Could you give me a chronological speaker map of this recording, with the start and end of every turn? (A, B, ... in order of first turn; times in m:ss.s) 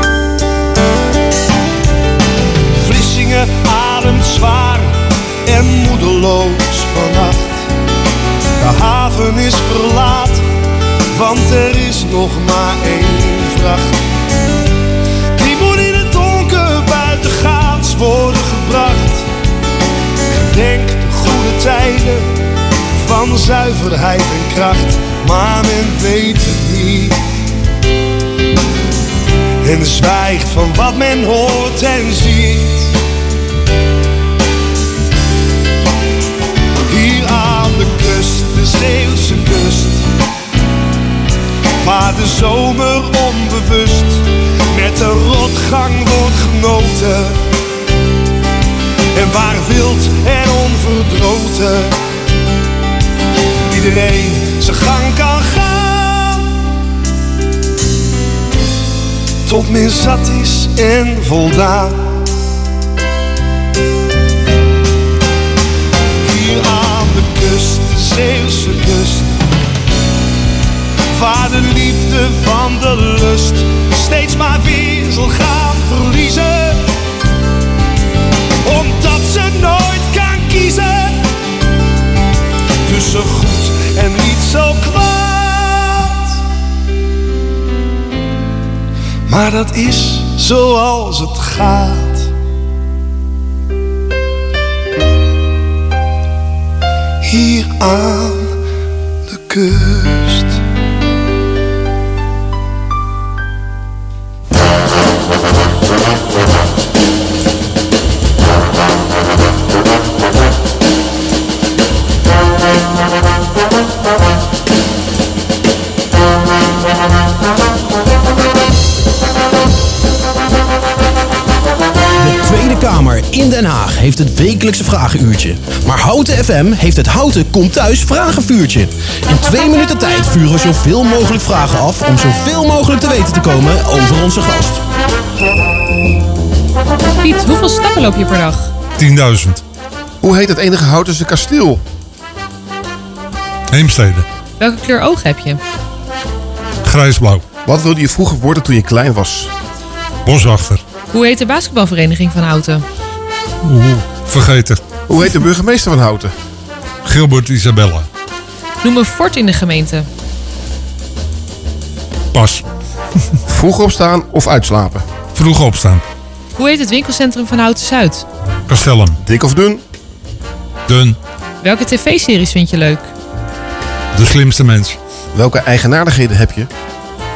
0:02.8-0:07.7 A
0:08.6-0:10.4 A
0:11.1-0:14.0 A
0:15.4-0:19.3 A
0:20.5-0:22.3 A
0:23.0-0:27.2 A
0:29.6-0:33.0 A
0:36.9-0:40.1 A
0:41.8-0:47.4 A
0:49.2-0:52.0 A
0:53.7-0:56.5 A
0:59.5-1:02.2 A
1:06.2-1:09.5 A
1:11.1-1:16.8 A
1:18.6-1:21.2 A
1:22.8-1:26.4 A
1:29.3-1:32.3 A
1:37.2-1:38.6 A
1:39.3-1:40.6 A
2:02.2-2:14.8 B
2:17.2-2:18.7 C
2:19.0-2:19.6 D
2:20.2-2:21.8 E
2:23.7-2:24.3 D
2:24.6-2:25.6 C
2:26.8-2:27.4 D
2:27.6-2:29.5 E
2:30.2-2:30.8 D
2:31.1-2:32.8 C
2:33.6-2:34.8 D
2:35.1-2:36.3 E
2:37.0-2:38.1 D
2:38.8-2:40.1 C
2:42.3-2:42.6 D
2:43.5-2:45.1 E
2:45.4-2:46.0 D
2:46.6-2:48.3 C
2:48.7-2:49.2 D
2:49.2-2:49.8 E
2:50.9-2:51.2 D
2:51.6-2:53.1 C
2:54.1-2:55.0 D
2:55.3-2:56.7 E